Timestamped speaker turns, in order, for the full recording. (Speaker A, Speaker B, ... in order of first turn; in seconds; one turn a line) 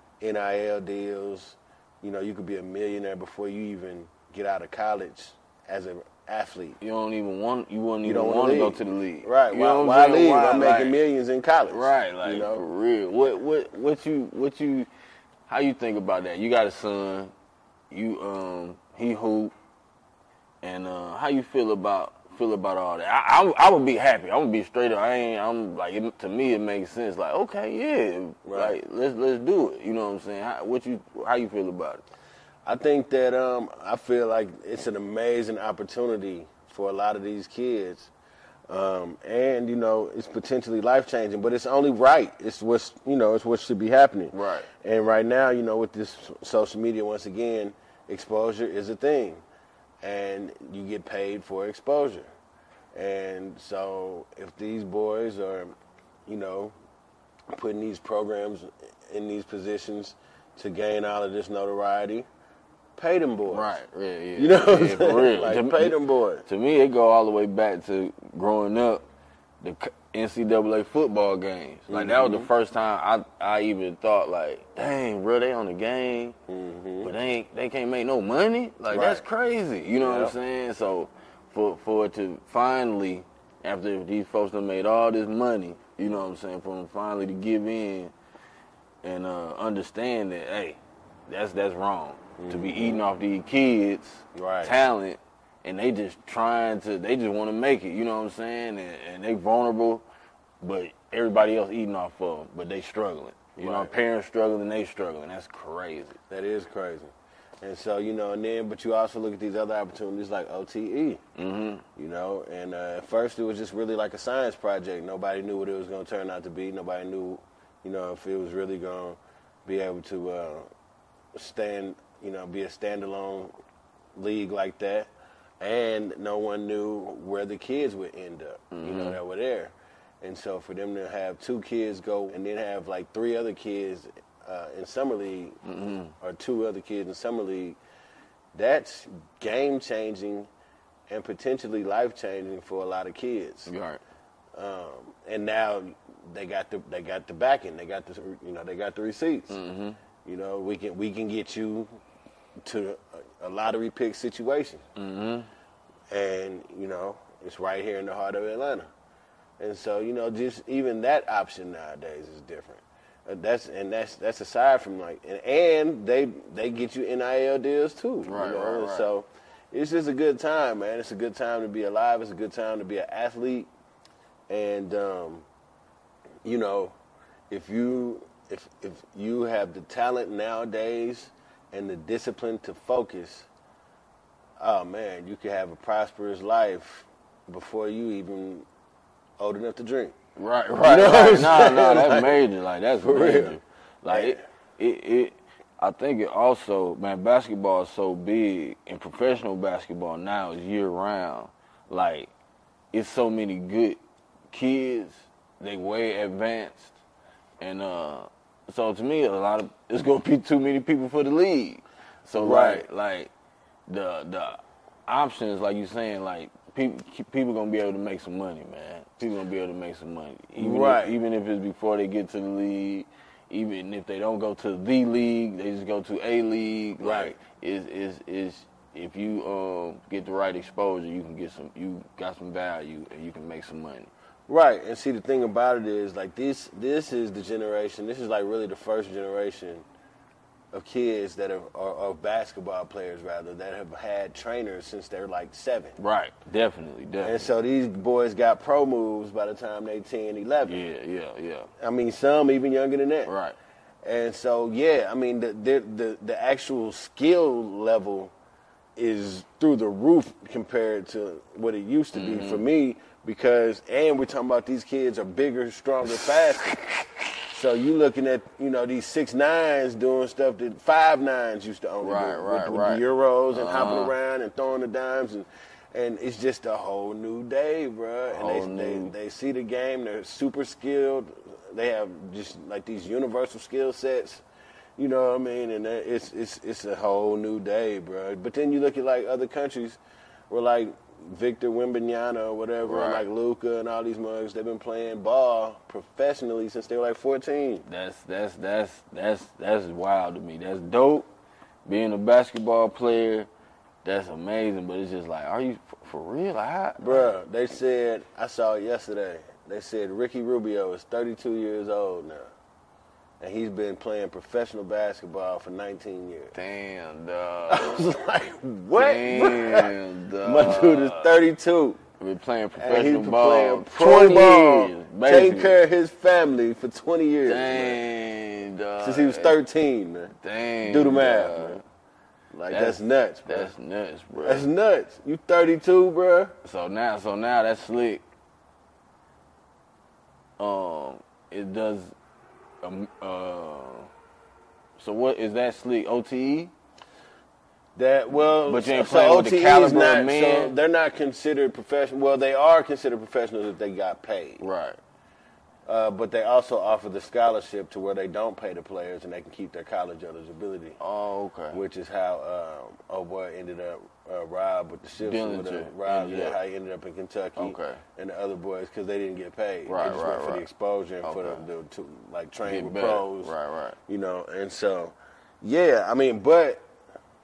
Speaker A: 0.2-6.8
Speaker B: 6.8-11.0
Speaker A: 8.0-12.6
Speaker B: 11.7-14.9
Speaker B: 15.5-17.3
Speaker B: 17.9-19.5
Speaker B: 20.6-32.0
Speaker A: 28.4-28.8
Speaker A: 32.7-38.1
Speaker A: 38.7-49.4
Speaker B: 44.3-44.7
Speaker A: 50.0-52.3
Speaker A: 52.9-55.7
Speaker A: 56.3-56.7
Speaker A: 57.5-62.3
Speaker A: 63.0-63.7
Speaker B: 63.5-69.0
Speaker A: 64.4-66.5
Speaker B: 69.6-76.4
Speaker A: 71.9-72.5
Speaker A: 76.5-77.1
Speaker B: 77.0-88.1
Speaker A: 78.9-79.2
Speaker A: 80.0-80.3
Speaker B: 89.0-100.0
Speaker A: 92.4-93.0
Speaker A: 94.3-94.8
Speaker B: 100.6-106.2
Speaker A: 103.6-103.9
Speaker A: 106.3-111.2
Speaker B: 111.4-111.8
Speaker A: 112.0-120.7
Speaker A: 121.3-123.5
Speaker A: 124.2-125.1
Speaker A: 125.6-135.6
Speaker B: 128.7-129.2
Speaker B: 135.7-136.2
Speaker A: 136.2-137.8
Speaker A: 138.6-140.5
Speaker A: 141.1-143.7
Speaker B: 143.7-144.0
Speaker A: 144.6-149.6
Speaker B: 149.5-150.0
Speaker A: 150.2-151.9
Speaker A: 152.7-154.8
Speaker B: 155.0-155.5
Speaker A: 156.1-158.9
Speaker A: 159.6-173.7
Speaker B: 168.2-169.1
Speaker A: 174.5-175.5
Speaker A: 176.4-176.9
Speaker A: 177.5-183.5
Speaker A: 184.6-188.7
Speaker A: 189.4-190.2
Speaker B: 190.4-202.3
Speaker A: 190.8-192.3
Speaker A: 193.0-194.4
Speaker B: 202.9-204.0
Speaker B: 204.5-207.0
Speaker B: 207.6-213.3
Speaker A: 212.4-212.9
Speaker B: 213.9-234.1
Speaker A: 220.6-221.2
Speaker A: 227.0-227.4
Speaker A: 234.5-239.8
Speaker A: 240.7-246.0
Speaker B: 246.0-247.4
Speaker A: 247.2-250.8
Speaker B: 250.7-251.7
Speaker A: 251.8-253.3
Speaker B: 253.3-253.6
Speaker A: 254.0-258.3
Speaker A: 259.0-266.8
Speaker B: 262.1-262.6
Speaker B: 266.1-266.9
Speaker A: 267.5-284.4
Speaker B: 272.0-274.1
Speaker B: 278.3-279.1
Speaker A: 285.0-297.9
Speaker B: 292.9-293.2
Speaker B: 297.9-301.3
Speaker B: 301.9-303.5
Speaker B: 304.0-307.3
Speaker A: 307.0-312.5
Speaker A: 313.4-316.6
Speaker B: 316.5-318.0
Speaker A: 317.7-322.0
Speaker B: 318.9-321.3
Speaker B: 322.2-325.8
Speaker A: 322.8-328.0
Speaker B: 327.5-329.6
Speaker A: 329.0-330.3
Speaker B: 330.4-331.8
Speaker A: 330.9-331.8
Speaker A: 332.5-333.7
Speaker B: 332.7-334.7
Speaker A: 334.4-336.6
Speaker B: 336.6-338.2
Speaker B: 340.6-342.1
Speaker B: 342.8-344.1
Speaker B: 345.0-346.7
Speaker A: 348.0-354.6
Speaker B: 348.7-350.7
Speaker B: 354.6-355.0
Speaker A: 355.9-361.0
Speaker B: 361.0-361.8
Speaker A: 361.7-373.5
Speaker B: 365.2-366.6
Speaker B: 367.6-368.0
Speaker B: 369.9-370.7
Speaker B: 371.2-371.6
Speaker B: 372.7-374.0
Speaker A: 374.1-376.8